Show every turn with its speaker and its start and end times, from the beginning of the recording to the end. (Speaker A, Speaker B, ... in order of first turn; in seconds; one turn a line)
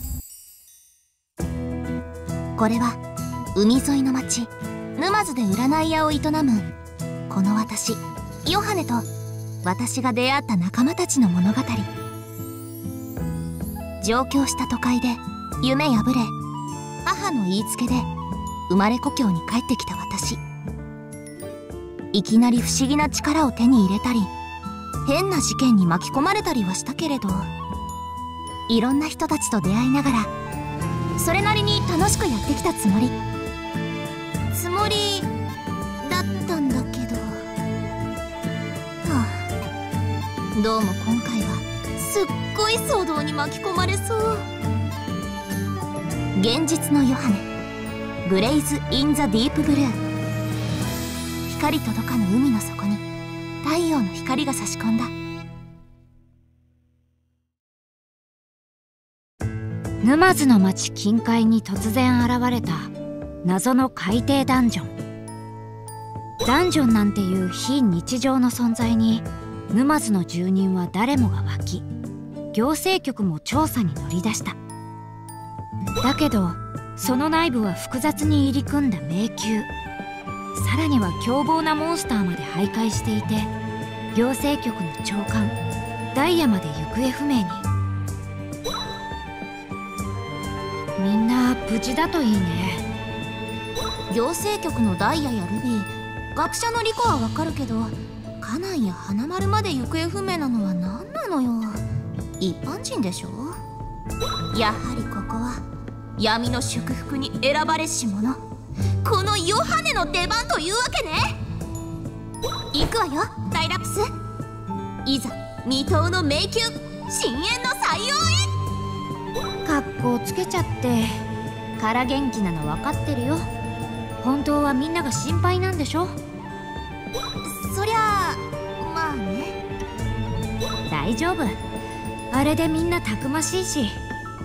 Speaker A: 2.6-3.0
Speaker A: 3.5-6.7
Speaker A: 7.3-9.1
Speaker A: 9.6-11.9
Speaker A: 14.0-16.3
Speaker A: 17.1-18.1
Speaker A: 18.7-20.4
Speaker A: 22.1-24.3
Speaker A: 25.1-27.5
Speaker A: 28.7-30.3
Speaker A: 31.2-33.2
Speaker A: 34.5-35.3
Speaker A: 36.0-37.4
Speaker A: 39.0-39.5
Speaker A: 40.5-44.4
Speaker A: 46.4-47.5
Speaker A: 48.2-50.0
Speaker A: 51.5-53.0
Speaker A: 53.6-55.1
Speaker B: 60.0-62.9
Speaker B: 63.4-64.9
Speaker B: 66.4-71.9
Speaker B: 72.5-74.6
Speaker B: 76.0-79.7
Speaker B: 80.5-83.5
Speaker B: 84.1-85.6
Speaker B: 86.1-87.7
Speaker B: 91.0-92.8
Speaker A: 94.1-101.8
Speaker A: 102.4-103.6
Speaker A: 104.5-105.6
Speaker A: 106.2-108.4
Speaker A: 109.0-111.3
Speaker A: 112.7-114.1
Speaker A: 115.0-118.5
Speaker B: 119.7-121.2
Speaker B: 121.8-123.4
Speaker B: 124.2-126.2
Speaker A: 127.5-129.6
Speaker B: 130.9-131.6
Speaker B: 132.3-134.0